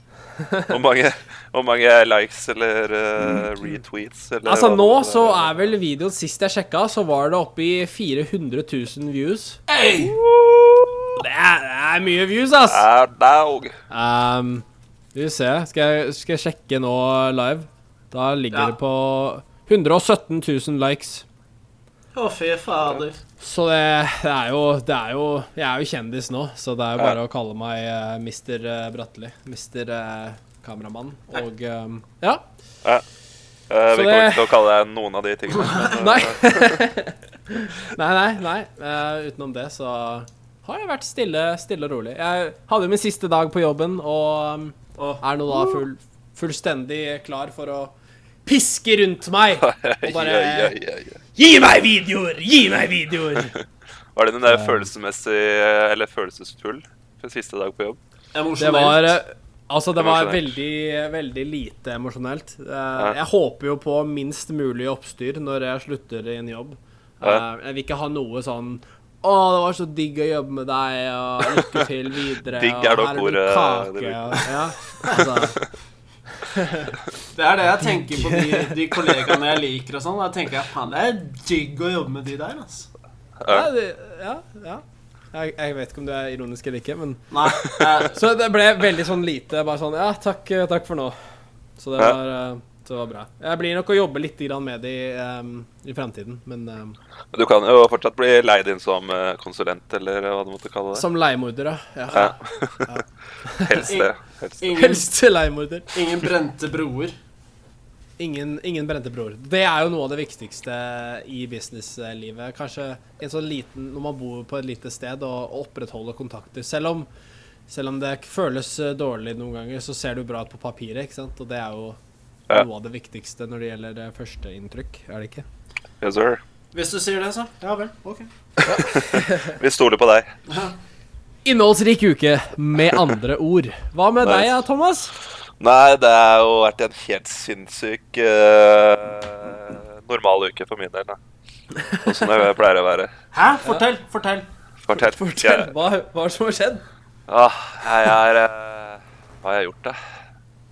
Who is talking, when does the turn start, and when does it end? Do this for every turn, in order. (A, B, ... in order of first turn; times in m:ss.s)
0:00.3-0:00.8 A
0:00.7-0:05.7 B
0:04.4-0:09.6 A
0:09.7-0:10.2 C
0:10.0-0:11.2 B
0:11.2-0:12.8 A
0:12.7-0:13.7 B
0:13.9-0:21.2 A
0:22.1-0:23.2 C
0:23.4-0:32.4 A
0:33.7-0:36.8 B
0:33.9-0:34.6 A
0:35.9-0:47.9 A
0:45.0-0:45.2 C
0:48.4-0:50.8 A
0:49.6-0:51.2 B
0:51.4-0:53.5 A
0:54.1-0:58.0 B
0:54.5-0:54.9 A
0:58.3-0:59.2 C
0:58.6-1:15.6 A
1:00.0-1:00.6 B
1:12.5-1:15.6 B
1:16.4-1:17.0 A
1:17.3-1:22.9 C
1:17.9-1:18.7 A
1:23.4-1:23.7 B
1:23.5-1:27.2 A
1:27.3-1:28.2 C
1:28.1-1:31.1 A
1:31.8-1:37.0 A
1:37.3-1:41.1 B
1:40.9-1:42.3 A
1:42.1-1:42.4 C
1:42.1-1:42.9 B
1:42.9-1:44.0 A
1:43.6-1:44.7 B
1:43.8-1:45.1 C
1:44.7-1:46.0 A
1:45.9-1:47.1 C
1:48.2-1:57.1 A
1:57.7-2:02.0 A
2:02.5-2:05.4 A
2:06.0-2:06.4 B
2:06.7-2:08.3 C
2:08.6-2:10.3 B
2:08.6-2:09.6 A
2:10.5-2:10.8 C
2:11.4-2:15.1 A
2:14.2-2:14.5 B
2:15.6-2:21.2 B
2:22.0-2:23.1 B
2:23.3-2:24.5 C
2:24.8-2:25.7 B
2:24.9-2:26.8 A
2:27.3-2:30.0 B